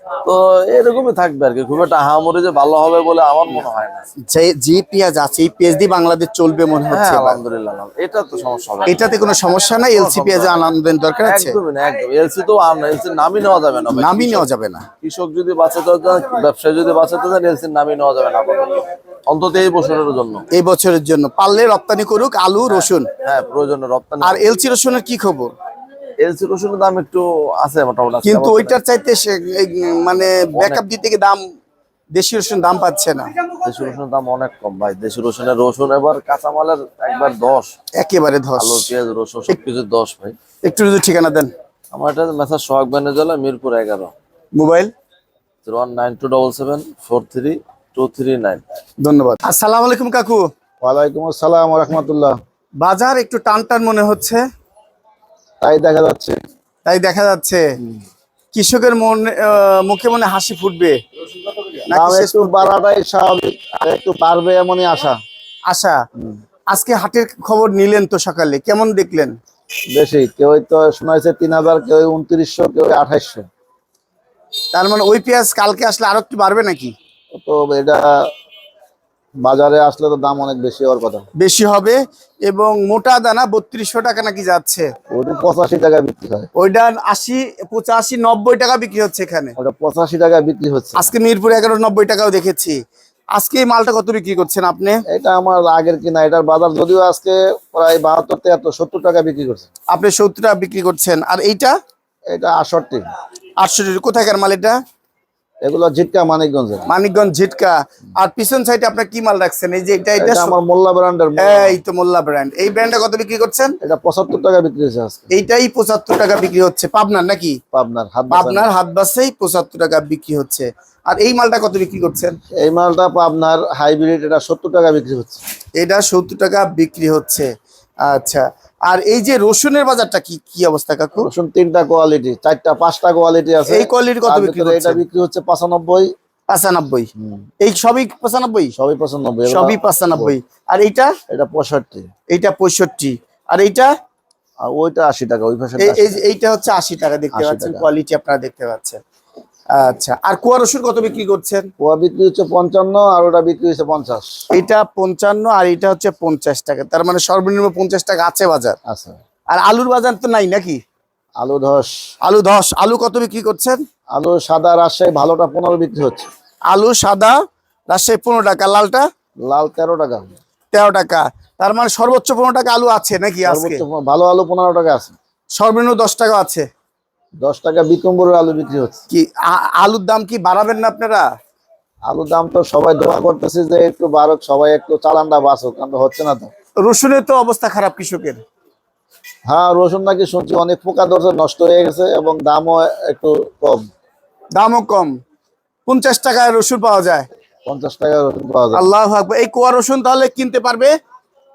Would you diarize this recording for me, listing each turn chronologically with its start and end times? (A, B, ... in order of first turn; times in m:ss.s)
0:00.2-0:04.0 A
0:04.2-0:07.4 B
0:06.9-0:09.2 A
0:08.9-0:11.6 B
0:09.9-0:10.7 A
0:11.2-0:14.5 A
0:13.9-0:14.8 B
0:15.0-0:20.4 A
0:20.5-0:23.1 B
0:22.6-0:24.5 A
0:24.2-0:25.5 B
0:26.2-0:28.8 A
0:28.2-0:31.4 B
0:30.5-0:30.9 A
0:32.1-0:33.3 B
0:33.6-0:37.7 A
0:38.0-0:38.9 B
0:38.6-0:40.4 A
0:40.6-0:41.5 B
0:41.9-0:44.1 A
0:44.5-0:44.9 B
0:45.6-0:48.6 A
0:49.0-0:50.4 B
0:50.8-0:52.3 C
0:52.8-0:54.4 B
0:55.6-0:56.4 C
0:56.8-0:57.6 B
0:58.5-1:01.0 B
1:01.9-1:02.7 B
1:01.9-1:05.2 C
1:05.7-1:06.0 B
1:06.7-1:09.3 B
1:09.9-1:13.5 C
1:14.7-1:16.9 B
1:17.3-1:18.1 C
1:19.4-1:21.2 C
1:21.4-1:24.9 B
1:25.1-1:26.5 C
1:26.5-1:29.6 B
1:29.6-1:31.0 C
1:30.9-1:32.8 B
1:33.3-1:35.0 B
1:35.1-1:39.6 C
1:39.9-1:41.7 B
1:42.3-1:43.1 C
1:43.6-1:44.8 B
1:45.6-1:46.8 C
1:46.8-1:50.5 B
1:50.2-1:51.8 C
1:51.4-1:53.8 B
1:53.8-1:55.3 C
1:55.3-1:57.6 B
1:57.7-1:58.7 C
1:58.3-2:02.4 B
2:02.6-2:05.4 C
2:05.8-2:07.5 B
2:08.0-2:11.3 B
2:11.2-2:16.1 C
2:13.6-2:15.0 B
2:16.5-2:18.7 B
2:17.2-2:17.5 C
2:18.8-2:20.3 C
2:19.5-2:21.1 B
2:21.3-2:22.1 C
2:22.3-2:23.9 B
2:24.6-2:26.2 C
2:25.8-2:29.0 B
2:27.3-2:27.9 C
2:29.7-2:31.7 B
2:31.8-2:34.4 C
2:34.5-2:38.8 B
2:38.8-2:39.2 C
2:39.5-2:40.8 B
2:41.4-2:41.9 C
2:42.2-2:43.8 B
2:44.1-2:46.3 C
2:46.7-2:47.4 B
2:47.9-2:49.1 B
2:49.4-2:50.4 C
2:50.7-2:53.8 B
2:53.5-2:55.1 C
2:55.5-2:56.7 B
2:57.4-2:59.0 C
2:59.1-3:01.2 B
3:02.1-3:06.5 C
3:06.8-3:08.4 B
3:09.5-3:13.9 C
3:14.5-3:15.1 B
3:15.9-3:17.3 B
3:17.6-3:18.8 C
3:18.7-3:20.9 B